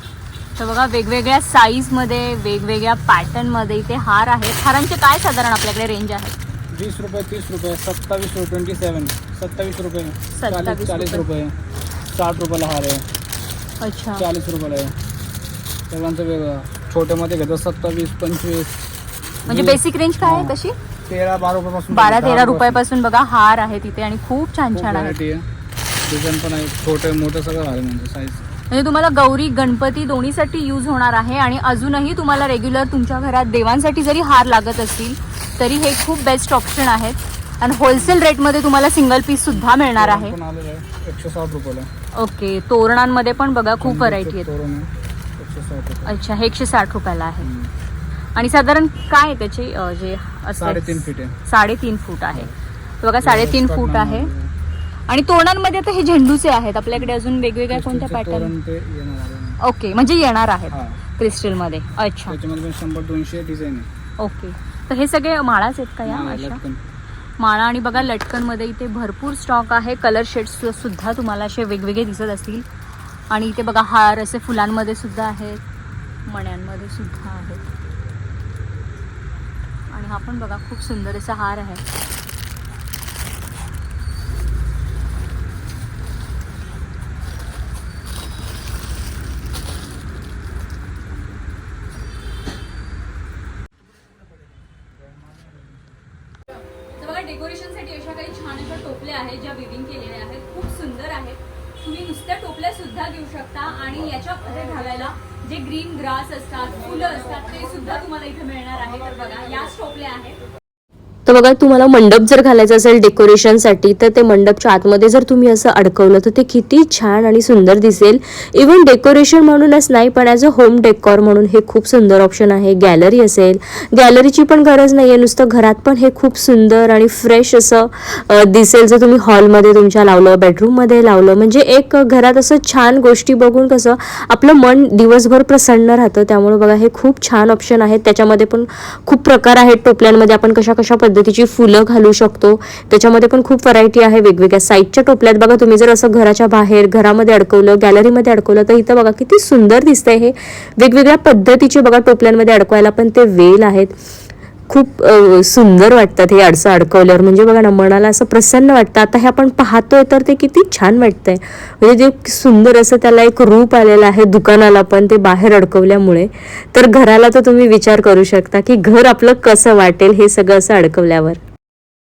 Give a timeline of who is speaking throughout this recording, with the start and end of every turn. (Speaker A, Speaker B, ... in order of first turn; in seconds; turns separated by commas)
Speaker A: 0.6-6.3, Speaker B: 6.7-11.5, Speaker A: 10.3-11.2, Speaker B: 12.1-13.0, Speaker A: 13.8-14.2, Speaker B: 14.2-14.9, Speaker B: 15.9-18.7, Speaker B: 19.4-22.8, Speaker A: 19.5-20.8, Speaker A: 21.9-25.2, Speaker B: 24.7-25.4, Speaker B: 26.1-28.4, Speaker A: 28.7-40.3, Speaker B: 39.6-41.9, Speaker A: 42.1-44.5, Speaker B: 43.8-46.2, Speaker A: 46.0-47.5, Speaker B: 47.4-47.7, Speaker A: 48.3-52.5, Speaker B: 50.6-51.3, Speaker A: 53.0-54.3, Speaker B: 53.2-54.5, Speaker A: 55.1-58.5, Speaker B: 57.7-59.6, Speaker A: 59.6-62.4, Speaker B: 60.7-61.0, Speaker B: 62.3-63.9, Speaker A: 64.2-66.6, Speaker B: 66.0-66.8, Speaker A: 67.4-72.7, Speaker A: 73.3-75.6, Speaker A: 76.2-77.7, Speaker A: 79.9-81.8, Speaker A: 96.9-110.4, Speaker C: 111.2-153.9, Speaker C: 154.7-171.4